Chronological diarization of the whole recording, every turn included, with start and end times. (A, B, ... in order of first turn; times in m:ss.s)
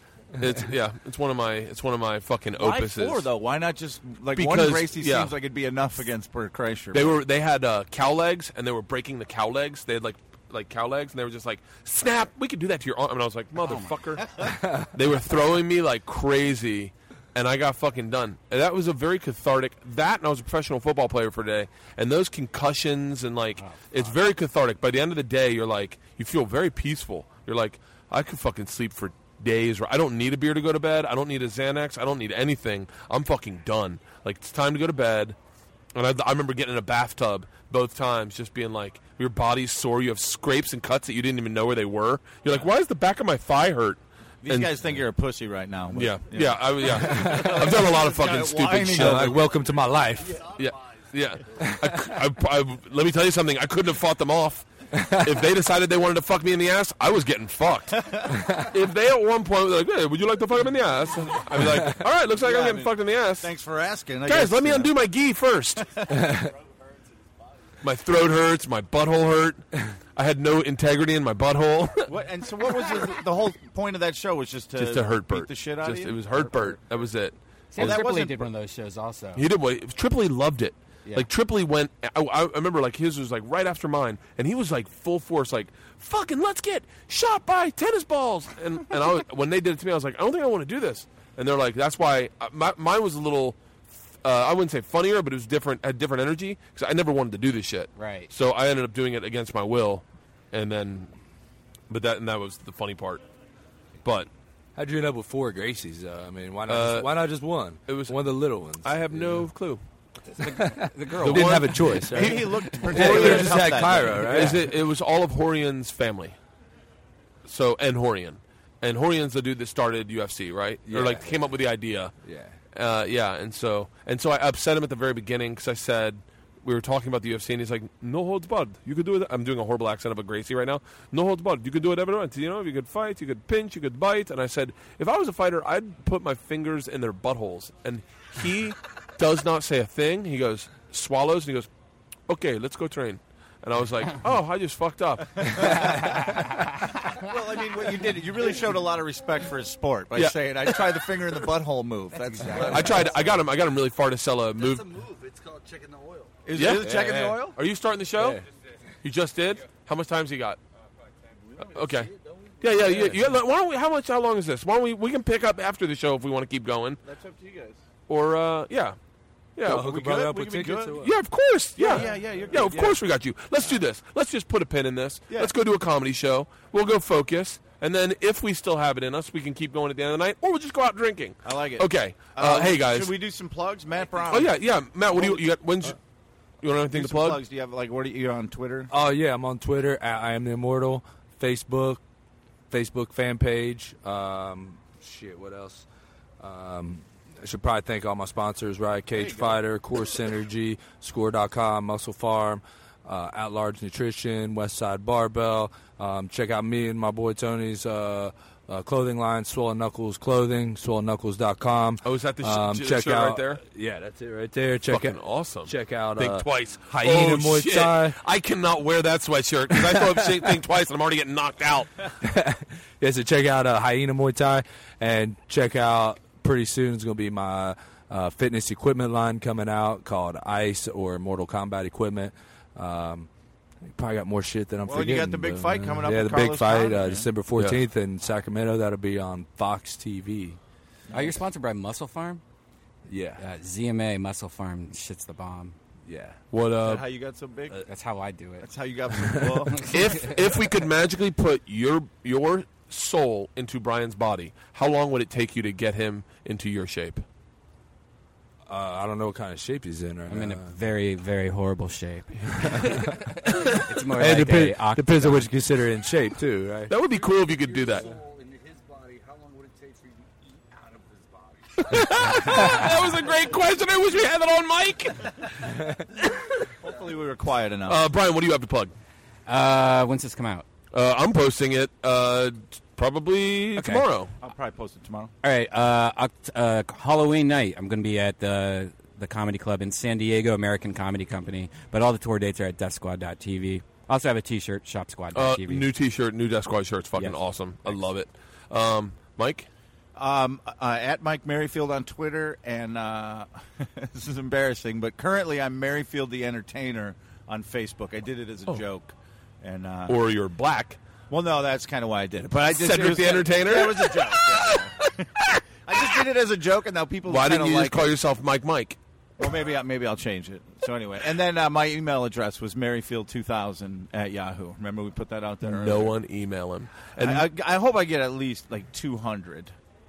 0:00.4-0:03.3 A
0:02.6-0:07.2 B
0:04.3-0:05.3 A
0:06.9-0:14.4 A
0:13.6-0:13.9 C
0:14.4-0:14.9 D
0:14.9-0:35.4 A
0:23.6-0:24.1 C
0:35.9-0:44.7 A
0:44.4-0:49.5 B
0:45.9-0:49.4 A
0:47.0-0:47.7 D
0:48.7-0:50.5 D
0:50.4-1:03.5 A
0:51.5-0:52.2 D
0:54.9-0:55.2 D
0:58.0-0:58.4 B
1:02.4-1:04.9 B
1:04.2-1:06.0 A
1:06.1-1:06.5 D
1:07.8-1:12.1 A
1:12.1-1:16.8 B
1:14.8-1:18.0 A
1:17.7-1:19.4 C
1:17.8-1:18.4 B
1:19.4-1:33.6 A
1:34.2-1:41.1 A
1:38.0-1:38.3 C
1:41.9-1:43.2 A
1:44.0-1:44.3 A
1:44.8-1:49.5 D
1:46.7-1:47.1 A
1:47.9-1:48.1 A
1:48.8-1:49.8 A
1:50.4-1:51.8 C
1:50.5-1:54.6 D
1:51.2-1:52.4 A
1:52.0-1:54.6 B
1:52.9-1:53.4 A
1:53.0-1:53.4 C
1:54.2-1:56.4 A
1:57.4-2:02.1 A
2:00.9-2:01.4 D
2:02.2-2:02.6 D
2:02.7-2:21.7 A
2:22.3-2:26.0 A
2:25.4-2:26.5 B
2:25.8-2:26.3 D
2:27.0-2:33.3 B
2:30.1-2:31.4 A
2:32.3-2:32.8 C
2:32.4-2:33.4 E
2:32.6-2:34.8 A
2:34.5-2:36.5 E
2:36.4-2:37.6 B
2:36.5-2:38.4 A
2:36.6-2:37.4 D
2:39.0-2:40.6 A
2:41.2-2:43.4 E
2:41.7-2:47.0 A
2:47.0-2:47.8 B
2:48.1-2:49.0 A
2:49.6-2:49.9 A
2:49.6-2:51.1 D
2:49.7-2:51.0 B
2:50.9-3:03.1 A
2:51.8-2:53.0 B
3:01.4-3:04.6 B
3:04.2-3:06.0 A
3:05.1-3:05.4 B
3:06.6-3:07.4 A
3:06.9-3:08.9 B
3:08.9-3:12.0 D
3:12.7-3:15.8 D
3:16.4-3:38.2 D
3:19.1-3:19.6 B
3:32.0-3:33.6 A
3:34.9-3:42.1 A
3:39.8-3:40.2 D
3:42.2-3:53.3 D
3:53.8-4:00.6 D
3:54.8-3:57.3 B
4:01.1-4:01.4 B
4:01.1-4:02.4 C
4:03.1-4:03.4 D
4:03.4-4:05.8 C
4:06.0-4:06.4 D
4:06.5-4:07.0 A
4:06.8-4:07.8 B
4:07.8-4:08.7 C
4:08.6-4:09.9 B
4:09.2-4:09.7 D
4:09.7-4:10.6 C
4:09.9-4:17.2 A
4:18.7-4:20.8 D
4:20.3-4:25.5 C
4:22.6-4:26.9 D
4:26.9-4:28.2 A
4:26.9-4:33.7 E
4:31.8-4:35.5 A
4:35.6-4:36.0 D
4:36.2-4:36.7 A
4:36.8-4:38.0 B
4:36.8-4:37.1 E
4:37.8-4:38.9 A
4:39.5-4:40.6 C
4:40.9-4:44.3 A
4:43.8-4:44.1 C
4:44.4-4:45.3 B
4:45.4-4:55.9 C
4:55.3-4:59.7 A
4:57.2-4:57.9 C
5:00.2-5:10.2 B
5:10.1-5:11.0 A
5:11.3-5:18.2 B
5:12.7-5:16.2 A
5:17.2-5:19.0 A
5:19.4-5:26.1 B
5:25.6-5:27.5 A
5:27.1-5:29.7 B